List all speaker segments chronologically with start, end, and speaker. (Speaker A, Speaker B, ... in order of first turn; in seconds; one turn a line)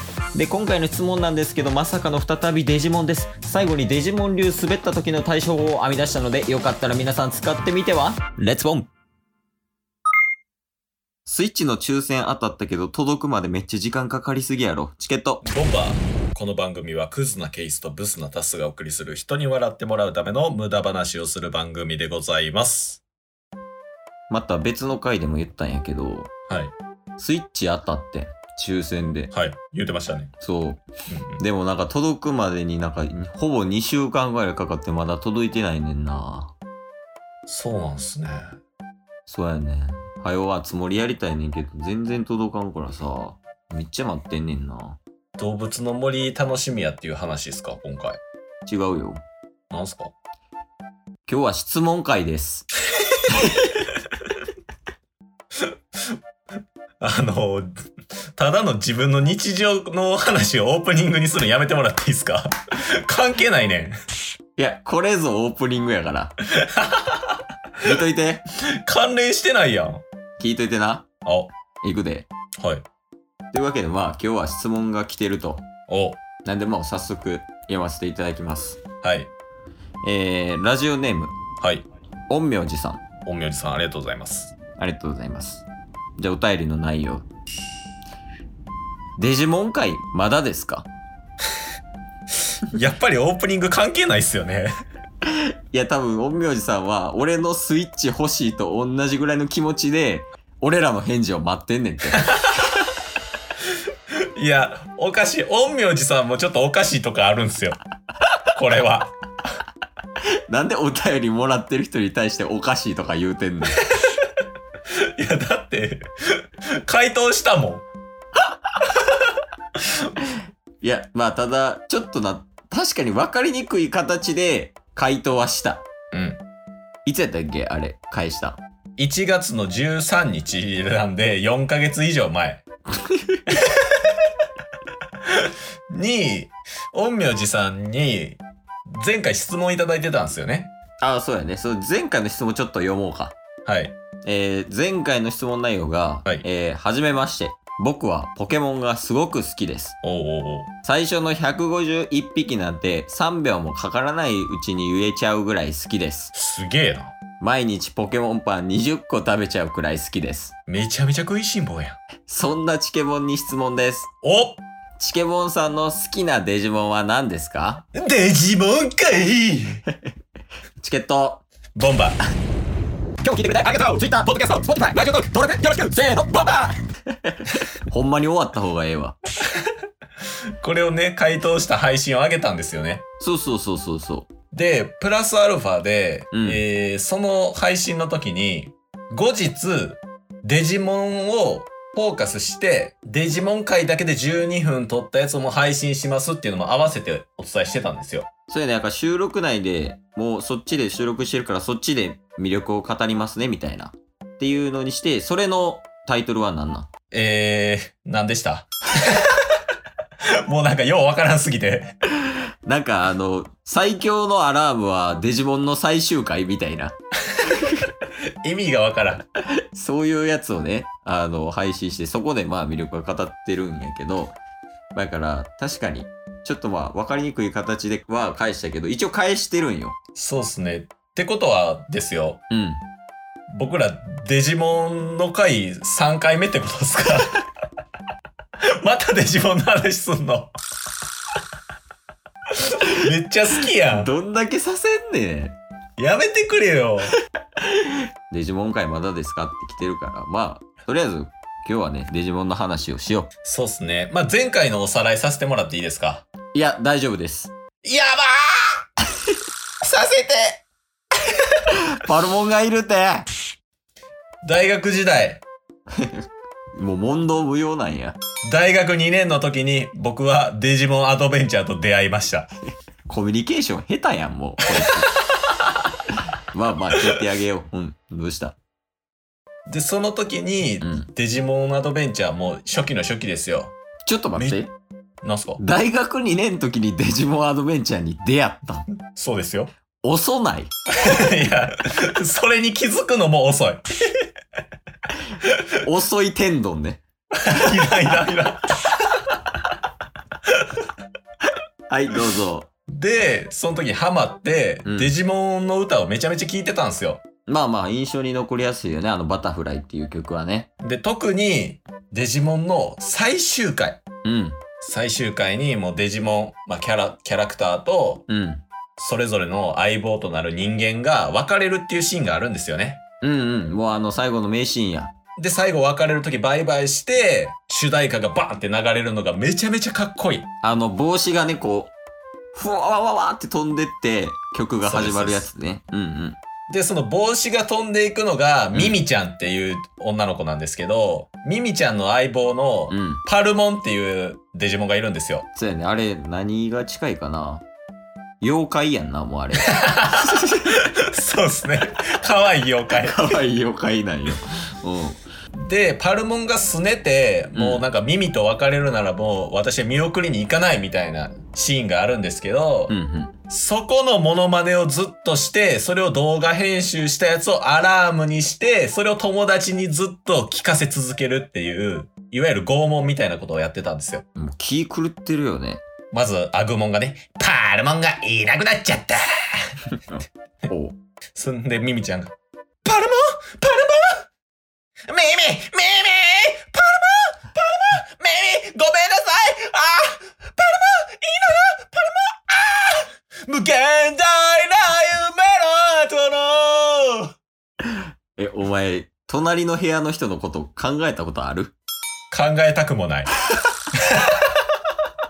Speaker A: 0.3-8.9
Speaker A: 11.3-15.4
Speaker B: 15.4-23.0
Speaker A: 24.3-26.3
Speaker B: 26.5-26.7
Speaker A: 27.2-29.3
Speaker B: 29.3-30.3
Speaker A: 30.4-30.8
Speaker B: 31.1-31.4
Speaker A: 31.4-36.5
Speaker B: 37.5-38.5
Speaker A: 39.3-45.0
Speaker B: 45.4-48.2
Speaker A: 48.7-49.2
Speaker B: 49.7-50.1
Speaker A: 51.3-52.7
Speaker A: 53.3-53.8
Speaker B: 57.0-57.8
Speaker B: 58.4-64.0
Speaker A: 64.6-66.3
Speaker B: 66.5-67.4
Speaker A: 67.8-68.5
Speaker B: 68.8-70.0
Speaker A: 70.4-71.1
Speaker B: 71.2-71.5
Speaker A: 71.8-72.3
Speaker B: 72.6-72.8
Speaker A: 73.5-75.6
Speaker B: 75.9-76.2
Speaker A: 76.4-78.8
Speaker B: 79.0-79.3
Speaker A: 80.0-81.4
Speaker B: 81.6-81.9
Speaker A: 82.3-83.0
Speaker B: 83.3-84.5
Speaker A: 84.8-85.7
Speaker A: 86.2-87.3
Speaker A: 89.2-90.9
Speaker B: 92.6-94.7
Speaker A: 95.3-102.7
Speaker B: 104.4-107.8
Speaker B: 108.5-109.1
Speaker A: 110.2-113.9
Speaker B: 115.2-117.9
Speaker B: 119.0-120.1
Speaker A: 120.2-125.8
Speaker B: 126.1-126.4
Speaker A: 127.1-128.6
Speaker B: 129.0-132.7
Speaker A: 132.9-133.4
Speaker B: 133.5-134.2
Speaker B: 135.2-138.4
Speaker B: 138.9-140.7
Speaker A: 141.0-143.4
Speaker B: 143.7-143.9
Speaker A: 144.2-150.0
Speaker B: 150.0-150.7
Speaker A: 150.8-156.3
Speaker B: 156.3-157.1
Speaker A: 157.4-160.6
Speaker B: 160.7-162.0
Speaker A: 162.3-164.1
Speaker B: 164.2-164.6
Speaker A: 165.0-167.9
Speaker B: 167.9-169.8
Speaker A: 170.8-171.4
Speaker B: 171.8-172.2
Speaker A: 173.2-179.2
Speaker B: 180.6-183.1
Speaker A: 183.2-184.3
Speaker B: 184.5-198.3
Speaker A: 186.3-186.6
Speaker A: 198.5-206.9
Speaker B: 207.1-209.6
Speaker B: 210.4-212.0
Speaker A: 212.2-217.0
Speaker B: 217.4-217.8
Speaker A: 217.5-217.8
Speaker B: 218.4-219.2
Speaker A: 219.6-224.4
Speaker A: 224.9-230.0
Speaker B: 230.2-232.4
Speaker A: 232.5-232.8
Speaker B: 233.5-237.4
Speaker B: 238.8-240.5
Speaker B: 242.7-244.1
Speaker A: 243.9-245.6
Speaker B: 246.0-247.2
Speaker A: 247.6-253.3
Speaker B: 253.4-256.2
Speaker A: 256.5-257.5
Speaker B: 257.8-258.8
Speaker B: 259.8-260.6
Speaker A: 261.6-263.3
Speaker B: 264.4-265.4
Speaker A: 265.9-268.2
Speaker B: 268.5-272.5
Speaker A: 273.1-275.1
Speaker A: 276.1-278.6
Speaker B: 279.7-283.7
Speaker A: 280.8-281.1
Speaker A: 284.1-284.7
Speaker B: 284.4-284.6
Speaker B: 285.2-285.6
Speaker A: 285.6-288.9
Speaker B: 289.1-289.7
Speaker A: 290.0-290.7
Speaker B: 291.0-294.3
Speaker B: 295.4-295.8
Speaker A: 295.8-297.7
Speaker B: 297.4-299.4
Speaker B: 300.5-300.8
Speaker A: 301.9-302.7
Speaker B: 302.9-307.2
Speaker A: 304.9-305.1
Speaker A: 307.5-310.7
Speaker B: 310.8-314.0
Speaker A: 314.2-314.6
Speaker B: 314.8-318.3
Speaker A: 318.3-318.6
Speaker B: 319.0-323.0
Speaker A: 323.2-325.1
Speaker B: 325.4-330.5
Speaker A: 330.6-331.9
Speaker A: 332.5-336.4
Speaker B: 334.8-335.4
Speaker B: 336.7-345.5
Speaker A: 338.7-339.0
Speaker A: 342.9-343.2
Speaker A: 345.6-347.6
Speaker A: 348.4-350.7
Speaker B: 349.7-353.4
Speaker A: 353.0-355.2
Speaker B: 355.5-362.9
Speaker A: 357.5-357.9
Speaker A: 362.9-363.3
Speaker B: 363.5-374.2
Speaker A: 374.4-375.8
Speaker B: 376.1-379.8
Speaker A: 380.1-381.0
Speaker B: 381.4-384.3
Speaker B: 385.1-397.3
Speaker A: 397.9-401.8
Speaker B: 402.3-403.3
Speaker B: 404.1-404.5